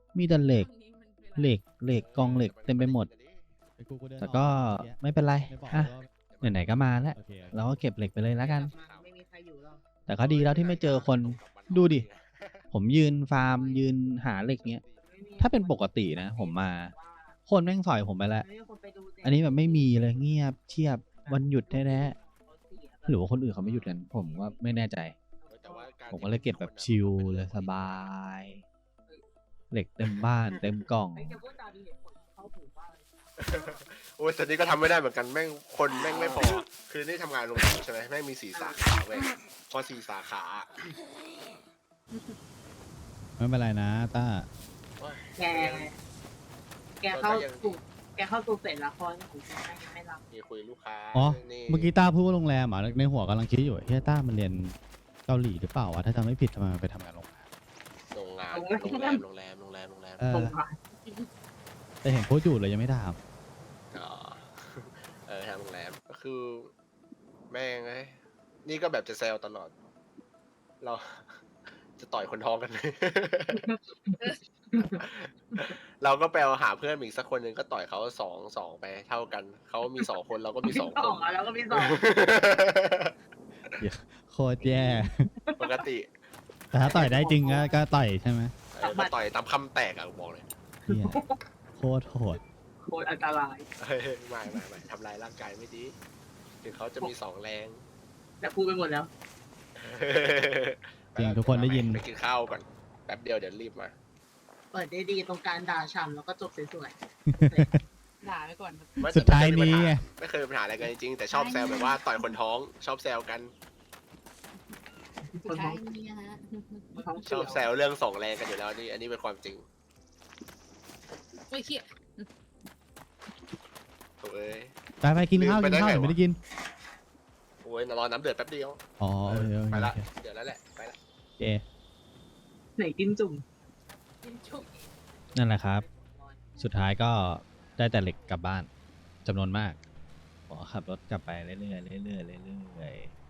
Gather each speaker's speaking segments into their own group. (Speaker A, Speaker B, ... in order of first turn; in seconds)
Speaker A: 0.1-0.7, 1.4-3.1, 4.2-8.7, 10.1-12.0, 12.7-14.8, 15.4-16.9, 17.5-18.4, 19.2-22.1, 23.1-25.1, 26.1-28.6, 29.7-31.4, 135.3-135.8, 136.6-138.7, 139.2-139.8, 140.5-143.1
Speaker B: 0.3-1.6, 42.1-42.4, 108.2-109.1, 111.3-112.4, 115.4-117.6, 121.5-122.3, 134.2-135.3, 137.4-138.3
Speaker C: 1.9-3.5, 5.5-7.6, 8.5-9.1, 10.2-12.7, 14.3-15.1, 25.5-28.1, 33.4-40.9, 45.0-45.9, 47.1-47.8, 50.3-51.9, 58.1-60.2, 63.9-66.7, 67.5-69.9, 70.8-71.4, 71.9-73.6, 74.9-83.1, 85.6-86.1, 86.9-87.2, 88.7-90.5, 93.8-96.0, 96.6-97.8, 99.8-103.9, 109.0-113.5, 117.2-119.7, 124.2-124.8, 125.3-126.2, 127.6-131.0
Speaker D: 3.8-6.1, 7.1-7.6, 43.4-44.5, 51.1-54.7, 55.3-57.5, 60.2-60.5, 62.0-63.2, 83.8-85.2, 86.7-88.5, 90.9-91.2, 91.8-92.4, 101.2-102.0, 107.3-107.8, 109.0-110.0, 125.0-126.4, 129.0-130.1, 131.4-131.6
Speaker E: 8.4-9.8, 13.4-13.8, 14.9-17.4, 18.3-20.4, 21.0-24.9, 25.4-26.3, 31.1-33.8, 36.1-36.6, 38.5-38.9, 45.4-46.0, 47.0-50.2, 58.5-59.2, 60.3-60.8, 73.5-75.7, 80.6-82.0, 84.6-85.8, 86.8-87.8, 88.8-89.1, 90.8-91.4, 92.8-93.7, 98.4-99.1, 104.7-107.8, 115.2-116.1, 116.9-117.7, 132.8-133.4, 135.2-136.4